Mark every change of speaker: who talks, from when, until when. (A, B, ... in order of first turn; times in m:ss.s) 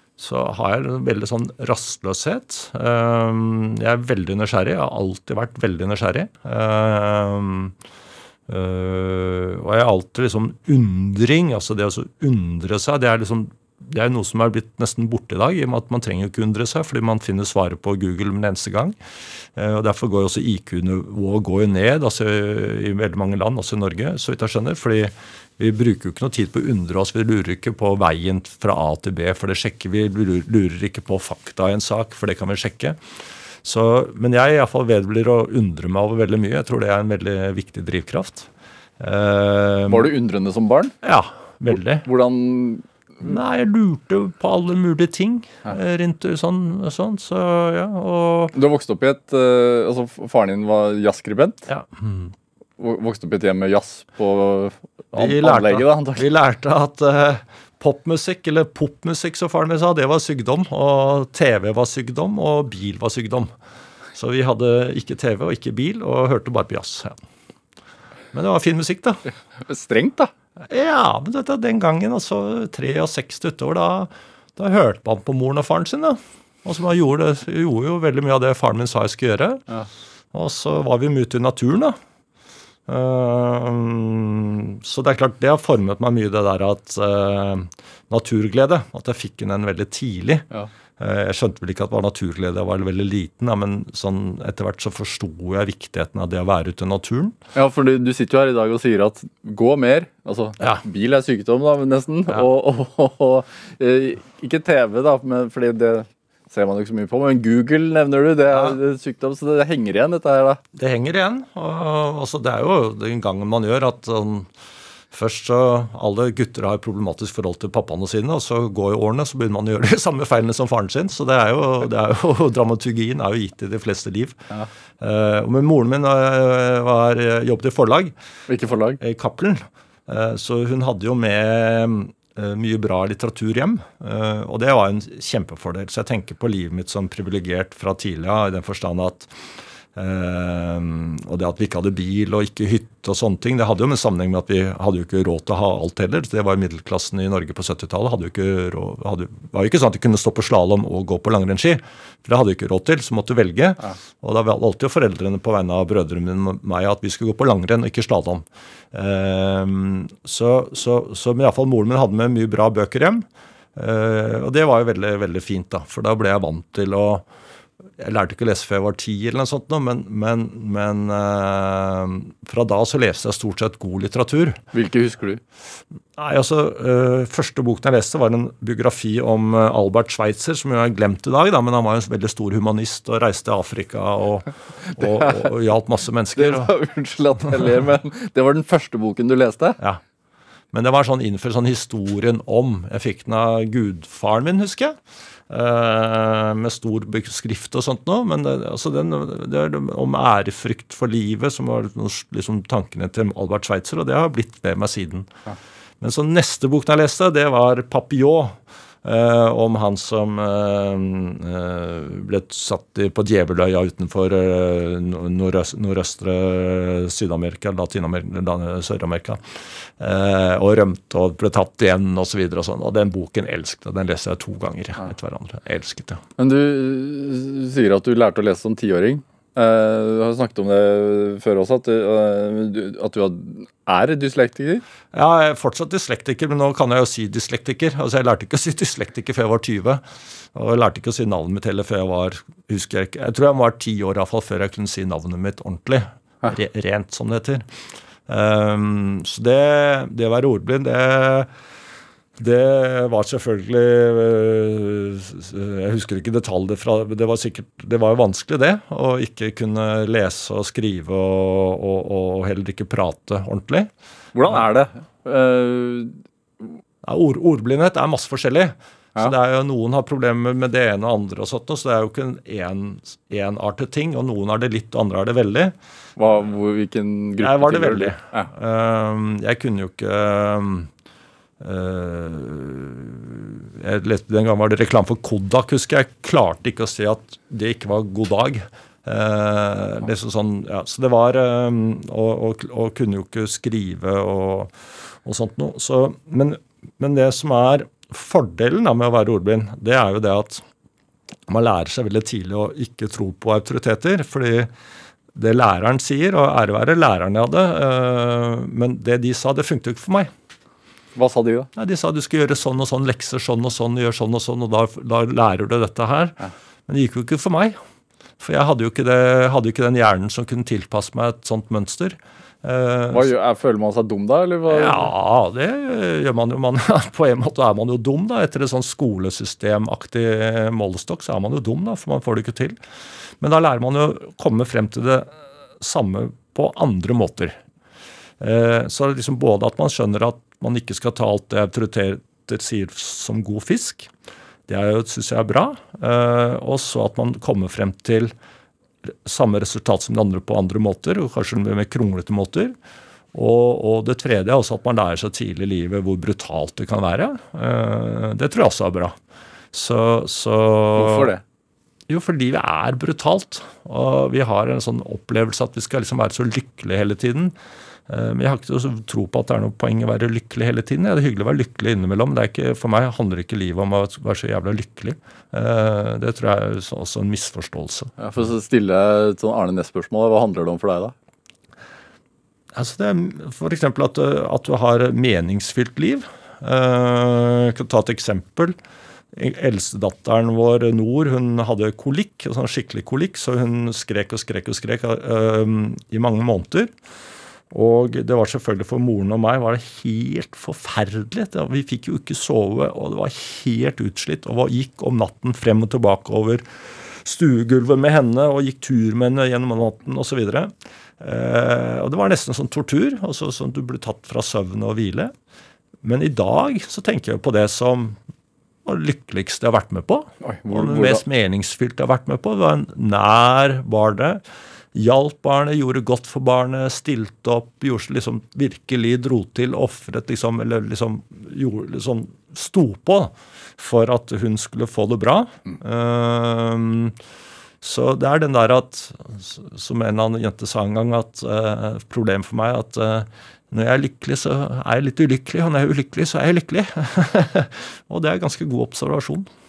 0:00.2-0:07.8 A
0:08.5-0:19.0 A
0:19.6-0:33.0 A
0:33.6-0:40.1 A
0:39.9-0:41.0 B
0:41.0-0:42.1 A
0:42.0-0:42.9 B
0:43.2-0:48.5 A
0:48.5-0:51.7 B
0:51.7-0:52.3 A
0:52.8-0:56.3 B
0:55.2-1:03.5 A
1:04.2-1:07.2 A
1:08.3-1:09.2 A
1:09.6-1:10.3 B
1:10.7-1:19.6 A
1:20.3-1:22.0 A
1:22.9-1:30.5 A
1:31.0-1:37.4 A
1:37.6-1:50.6 B
1:48.5-1:48.8 A
1:50.7-1:54.5 A
1:55.1-2:04.4 A
2:05.0-2:08.1 A
2:08.5-2:09.0 B
2:09.0-2:19.3 A
2:20.0-2:47.3 A
2:48.0-2:54.6 A
2:54.7-2:55.4 B
2:56.2-3:06.7 A
3:04.9-3:05.5 B
3:06.4-3:09.8 B
3:10.7-3:15.0 A
3:15.5-3:25.3 A
3:26.0-3:39.4 A
3:40.0-3:46.2 A
3:46.4-3:54.8 B
3:55.1-4:07.7 A
4:08.3-4:11.5 A
4:12.4-4:23.9 A
4:24.4-4:26.7 B
4:27.0-4:35.8 A
4:36.2-4:38.5 B
4:37.4-4:40.9 A
4:41.6-5:00.6 A
5:01.5-5:04.7 A
5:05.3-5:10.3 A
5:11.2-5:11.7 B
5:11.8-5:17.8 A
5:18.4-5:23.3 A
5:23.1-5:25.1 B
5:24.7-5:32.8 A
5:33.4-5:37.6 A
5:38.4-5:44.1 A
5:44.7-5:48.3 A
5:49.1-5:52.8 A
5:53.3-5:59.2 A
5:59.7-6:01.3 A
6:01.0-6:01.4 B
6:02.1-6:07.5 A
6:08.1-6:18.2 A
6:18.2-6:21.2 B
6:22.7-6:28.8 A
6:29.3-6:36.9 A
6:37.7-6:55.3 A
6:56.0-6:58.2 A
6:58.8-7:04.4 A
7:00.4-7:01.2 B
7:04.9-7:17.2 A
7:17.8-7:29.5 A